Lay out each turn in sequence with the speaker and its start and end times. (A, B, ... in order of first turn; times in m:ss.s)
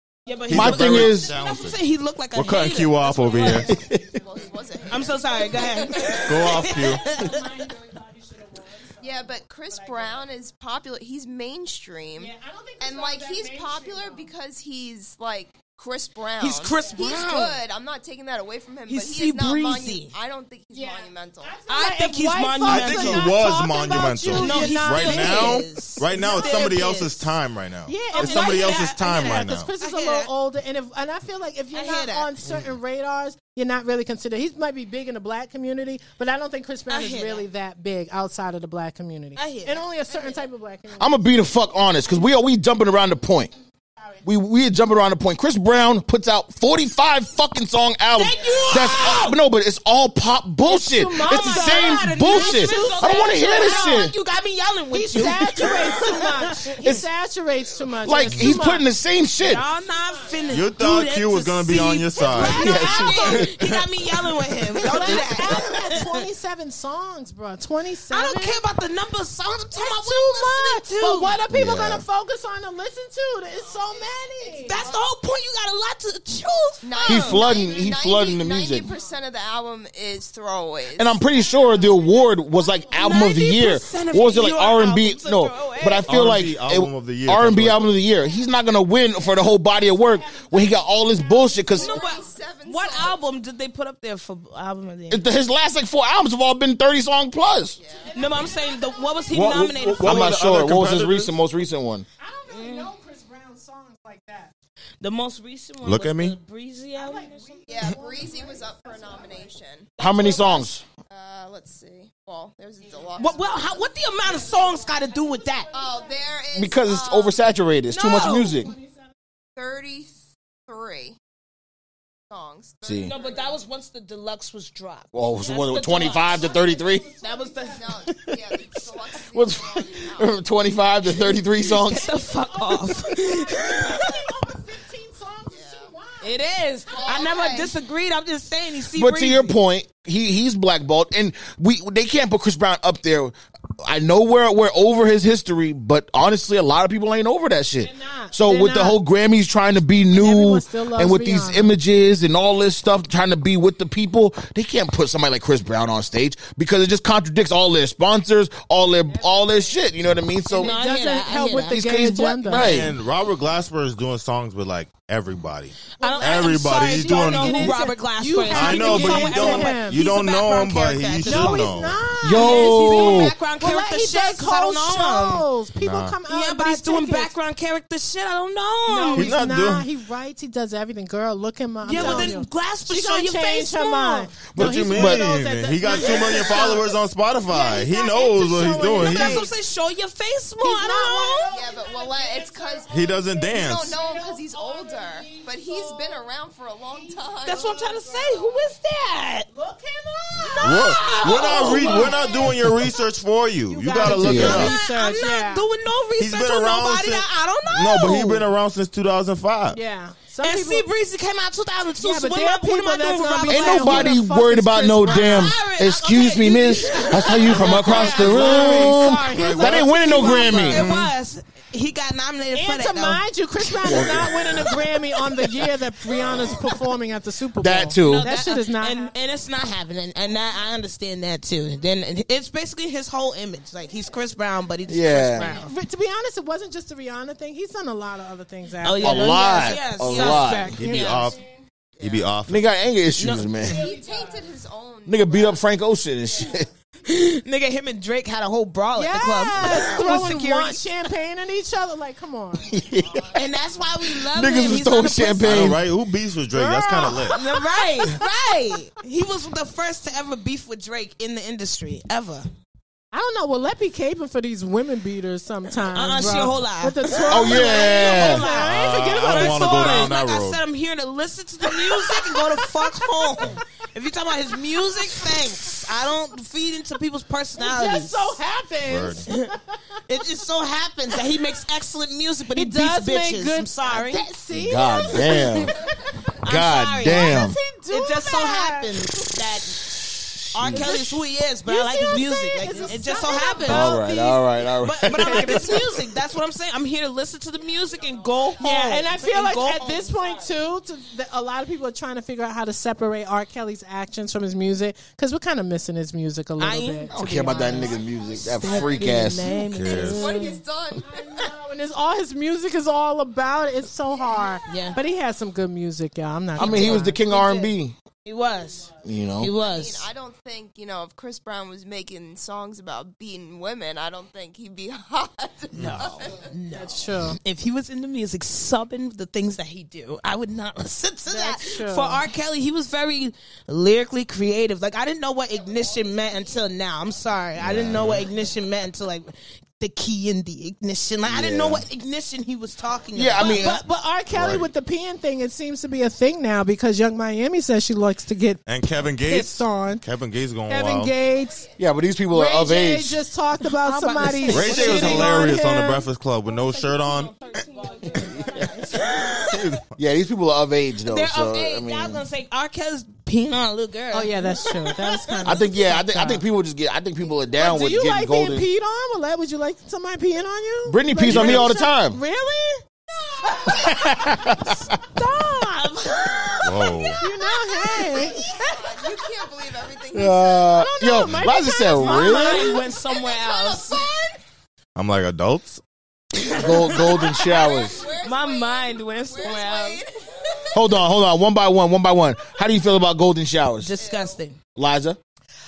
0:00.2-0:03.7 A
0:00.3-0:01.4 B
0:00.5-0:01.8 C
0:00.5-0:01.3 D
0:02.3-0:03.7 C
0:02.9-0:10.3 B
0:03.2-0:06.5 E
0:03.7-0:04.0 D
0:04.9-0:07.6 A
0:06.3-0:07.0 C
0:09.0-0:21.6 E
0:12.2-0:14.3 B
0:16.4-0:17.6 A
0:16.6-0:17.2 B
0:18.9-0:20.1 A
0:20.7-0:27.1 B
0:21.7-0:23.4 A
0:22.6-0:29.7 C
0:24.3-0:27.3 A
0:27.8-0:42.3 B
0:28.1-0:30.3 A
0:31.7-0:32.3 A
0:36.9-0:37.4 A
0:39.4-0:40.4 A
0:41.0-0:43.5 D
0:44.0-0:44.2 B
0:44.2-0:54.1 D
0:48.1-0:49.3 A
0:48.4-0:49.2 B
0:50.6-0:54.1 B
0:51.1-0:56.7 A
0:54.9-0:58.9 B
0:55.2-0:55.7 D
0:56.8-0:57.0 D
0:58.0-0:59.6 D
0:59.4-1:06.2 A
0:59.8-1:00.6 B
1:00.5-1:02.6 C
1:02.3-1:03.6 B
1:02.4-1:03.5 D
1:04.8-1:08.6 B
1:08.1-1:11.4 A
1:09.7-1:15.0 B
1:11.5-1:12.0 D
1:13.7-1:15.0 E
1:14.6-1:17.5 A
1:16.8-1:21.2 E
1:17.0-1:18.9 D
1:21.0-1:31.9 D
1:21.2-1:23.8 B
1:23.0-1:26.2 A
1:26.1-1:28.0 C
1:29.1-1:32.4 B
1:31.6-1:33.2 E
1:31.8-1:35.3 A
1:35.1-1:37.8 D
1:37.8-1:38.5 E
1:38.0-1:39.3 B
1:38.1-1:40.3 A
1:39.3-1:41.3 C
1:40.0-1:42.0 D
1:42.2-1:44.5 B
1:42.5-1:42.9 A
1:45.0-1:47.5 A
1:45.8-1:46.4 C
1:46.9-1:49.5 B
1:47.7-1:53.6 E
1:50.0-1:50.8 D
1:50.3-1:50.6 B
1:52.8-1:56.4 B
1:53.2-1:55.7 A
1:55.7-1:57.4 E
1:56.5-1:58.7 D
1:57.9-1:58.6 A
1:58.5-1:59.1 B
1:59.6-2:00.1 E
2:00.7-2:01.2 E
2:02.3-2:03.5 E
2:02.8-2:03.1 D
2:03.0-2:06.5 A
2:05.1-2:07.1 D
2:05.5-2:08.2 B
2:07.2-2:07.8 A
2:07.7-2:10.4 E
2:08.1-2:08.4 D
2:09.3-2:12.1 D
2:11.6-2:14.3 A
2:12.0-2:16.4 B
2:15.5-2:15.9 E
2:16.2-2:19.6 A
2:16.9-2:17.8 E
2:18.9-2:40.7 D
2:27.8-2:29.0 B
2:30.1-2:31.8 B
2:39.0-2:39.9 B
2:40.4-2:42.8 B
2:40.6-2:41.8 A
2:41.7-2:42.9 D
2:42.6-2:47.8 C
2:46.0-2:51.8 A
2:46.0-2:50.0 B
2:48.5-2:52.0 C
2:51.2-2:57.3 B
2:52.2-2:53.3 D
2:52.3-2:55.5 A
2:55.8-2:56.2 C
2:56.3-2:59.3 A
2:58.9-3:09.5 B
2:59.1-2:59.9 C
3:01.8-3:04.4 A
3:01.9-3:02.3 C
3:04.5-3:05.2 D
3:04.6-3:09.4 C
3:05.8-3:06.6 A
3:08.8-3:11.5 A
3:10.6-3:16.3 B
3:11.5-3:17.7 E
3:12.9-3:14.0 C
3:16.9-3:18.8 B
3:17.4-3:19.5 A
3:19.5-3:23.0 B
3:20.4-3:24.8 C
3:20.5-3:22.6 A
3:23.7-3:25.7 B
3:24.0-3:28.4 A
3:24.0-3:24.7 D
3:26.2-3:29.8 C
3:29.7-3:30.9 B
3:30.4-3:34.2 A
3:32.0-3:35.7 B
3:33.5-3:40.9 D
3:35.0-3:38.3 A
3:37.0-3:40.9 B
3:37.5-3:40.1 C
3:40.4-3:44.1 A
3:40.7-3:41.1 C
3:42.5-3:49.2 B
3:43.8-3:44.7 D
3:47.6-3:48.3 D
3:48.0-3:55.7 A
3:54.9-3:55.6 D
3:55.4-4:01.4 B
3:58.8-4:01.4 A
3:59.0-4:00.7 D
4:00.7-4:01.4 C
4:02.0-4:02.3 E
4:02.0-4:02.7 C
4:02.5-4:03.8 D
4:03.2-4:03.7 A
4:03.6-4:04.5 B
4:03.6-4:05.6 E
4:05.0-4:06.7 D
4:06.3-4:06.6 B
4:07.0-4:10.9 A
4:08.9-4:12.8 B
4:12.6-4:13.3 D
4:12.9-4:13.8 E
4:13.3-4:15.7 A
4:14.0-4:15.8 D
4:15.4-4:17.4 C
4:16.5-4:18.3 B
4:17.3-4:22.5 A
4:23.1-4:30.2 B
4:25.9-4:38.4 A
4:27.2-4:28.4 D
4:28.5-4:30.6 C
4:31.6-4:33.6 B
4:34.9-4:35.8 B
4:37.6-4:39.8 B
4:38.8-4:39.3 C
4:40.1-4:44.3 A
4:42.5-4:46.2 B
4:44.5-4:45.7 D
4:46.4-4:49.9 A
4:46.4-4:47.6 D
4:47.0-4:49.4 B
4:50.5-4:50.9 D
4:50.5-4:54.0 A
4:50.6-4:56.1 B
4:53.6-4:56.0 D
4:54.8-5:00.1 A
4:57.6-4:58.9 E
4:58.6-5:07.9 B
4:59.9-5:00.5 E
5:06.6-5:08.0 A
5:07.1-5:09.3 E
5:07.1-5:09.6 D
5:08.5-5:10.6 A
5:09.6-5:10.3 C
5:09.8-5:11.5 E
5:11.0-5:17.2 B
5:14.2-5:15.0 E
5:14.6-5:15.0 A
5:16.6-5:17.9 D
5:16.6-5:17.7 A
5:18.2-5:20.1 A
5:18.6-5:18.9 B
5:19.0-5:19.5 D
5:19.5-5:26.5 E
5:25.7-5:26.1 C
5:25.8-5:43.8 A
5:26.7-5:27.4 B
5:31.3-5:32.2 B
5:37.6-5:38.3 C
5:37.7-5:38.0 D
5:41.2-5:41.8 D
5:42.9-5:43.3 E
5:43.1-5:43.8 D
5:43.4-5:48.6 B
5:44.3-5:44.7 C
5:48.6-5:51.1 C
5:49.2-5:50.0 B
5:50.7-5:51.7 B
5:51.3-5:51.8 E
5:51.8-5:53.2 D
5:52.3-5:59.1 B
5:53.7-5:55.5 A
5:54.5-5:57.3 C
5:56.5-5:59.2 E
5:57.6-5:59.7 A
5:58.4-5:58.7 D
5:59.4-5:59.8 C
6:00.0-6:02.2 D
6:01.0-6:05.6 A
6:04.1-6:06.4 B
6:05.4-6:08.7 D
6:07.5-6:12.8 B
6:10.9-6:12.2 D
6:11.3-6:11.7 C
6:13.4-6:14.0 A
6:13.6-6:15.7 B
6:13.7-6:14.9 D
6:15.1-6:18.4 A
6:16.6-6:17.2 C
6:17.2-6:19.0 B
6:17.2-6:21.1 E
6:20.1-6:22.7 D
6:20.7-6:22.9 B
6:22.0-6:24.0 A
6:22.3-6:24.4 E
6:25.0-6:25.8 C
6:26.4-6:28.0 D
6:26.5-6:31.0 E
6:26.5-6:27.6 A
6:28.2-6:30.0 A
6:30.7-6:33.9 D
6:33.8-6:34.6 A
6:33.9-6:34.4 E
6:34.8-6:35.2 D